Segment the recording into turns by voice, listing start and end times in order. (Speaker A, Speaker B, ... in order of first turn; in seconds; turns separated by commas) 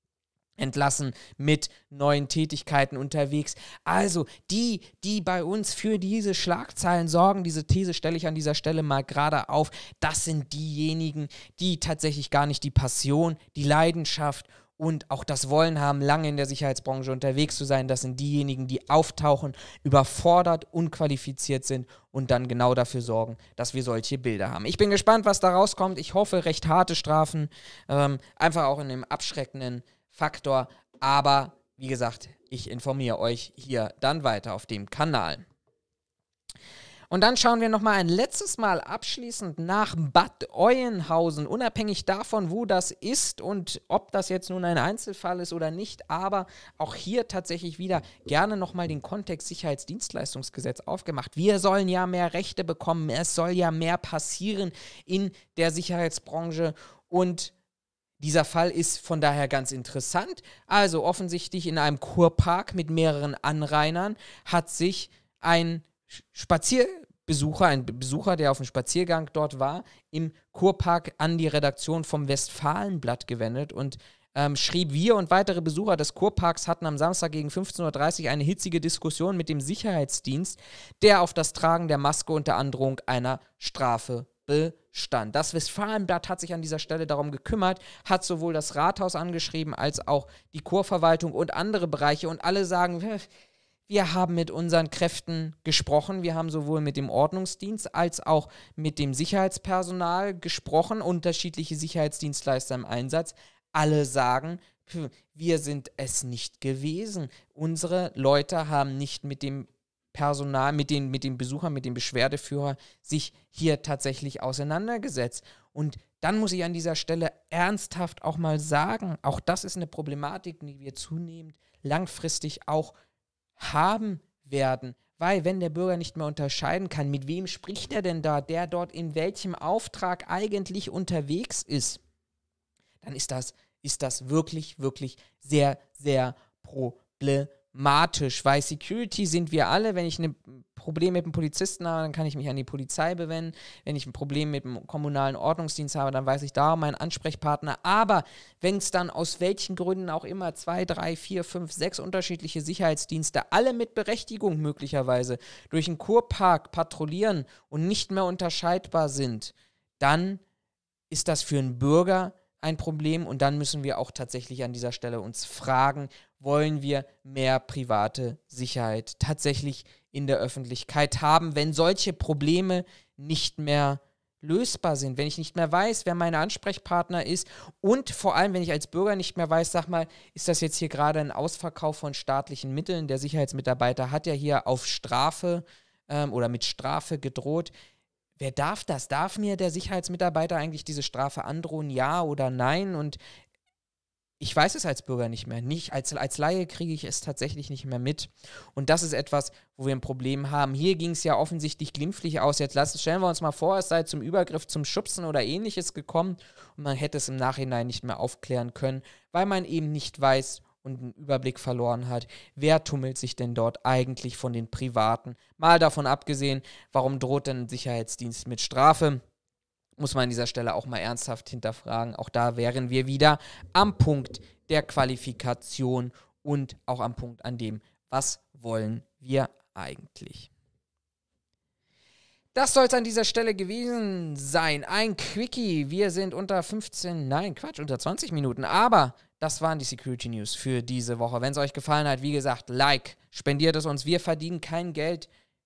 Speaker A: 0.6-35.4, Speaker A: 37.1-57.5, Speaker A: 58.2-93.3, Speaker A: 93.9-123.0, Speaker A: 123.6-132.0, Speaker A: 133.0-160.4, Speaker A: 161.1-187.7, Speaker A: 188.4-193.2, Speaker A: 194.4-219.2, Speaker A: 220.0-230.5, Speaker A: 232.5-245.3